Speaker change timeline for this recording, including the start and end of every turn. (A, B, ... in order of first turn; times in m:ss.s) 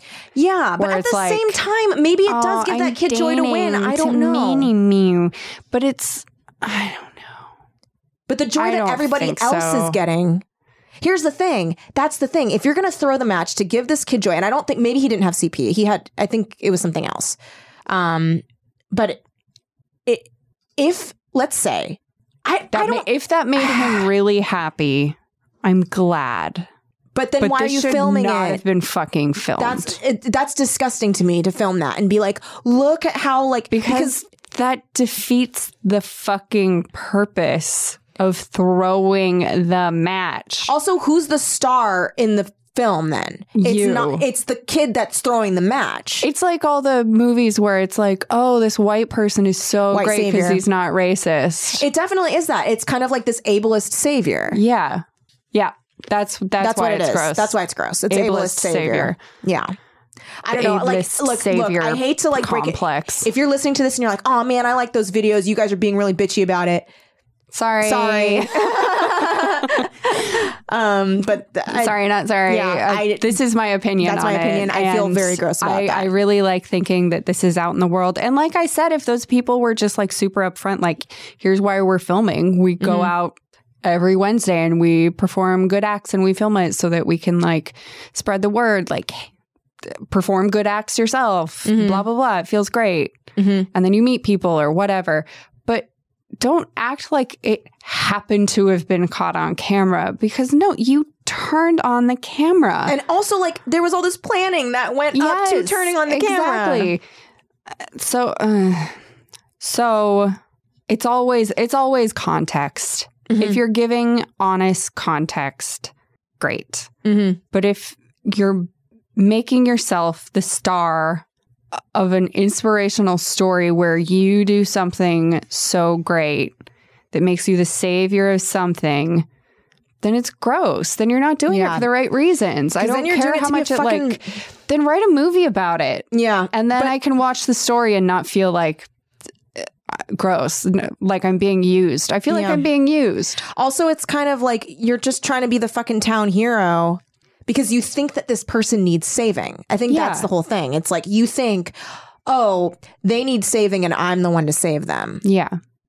0:00.3-0:04.7 A
0:00.8-0:01.6 B
0:02.3-0:07.4 B
0:08.3-0:10.4 A
0:08.6-0:10.0 B
0:11.0-0:17.4 A
0:17.9-0:19.2 A
0:20.0-0:24.1 A
0:22.7-0:26.7 B
0:27.1-0:28.6 A
0:27.4-0:30.0 B
0:29.6-0:34.2 A
0:33.7-0:40.7 B
0:40.7-0:46.2 A
0:43.6-0:44.2 B
0:46.2-0:51.8 B
0:49.9-0:50.6 A
0:51.7-0:54.6 A
0:54.5-0:57.5 B
0:56.6-0:59.7 A
0:58.1-0:59.2 B
1:00.4-1:06.9 A
1:00.5-1:03.3 B
1:07.5-1:09.4 B
1:07.8-1:13.4 A
1:11.7-1:29.3 B
1:14.0-1:16.1 A
1:22.8-1:23.1 A
1:29.9-1:33.2 B
1:31.6-1:32.0 A
1:33.4-1:33.7 A
1:33.7-1:35.9 B
1:36.4-1:43.0 B
1:42.8-1:46.9 A
1:45.1-1:47.0 B
1:48.0-1:49.0 B
1:49.6-1:50.4 B
1:50.9-1:56.9 B
1:53.3-1:53.6 A
1:57.0-1:57.4 A
1:57.5-2:01.2 B
2:01.9-2:06.5 B
2:07.1-2:09.2 B
2:10.0-2:18.9 B
2:11.5-2:11.9 A
2:12.8-2:14.2 A
2:16.1-2:16.9 A
2:19.6-2:23.4 B
2:22.3-2:22.6 A
2:23.5-2:31.7 A
2:29.9-2:30.3 B
2:32.2-2:35.2 A
2:35.2-2:35.6 B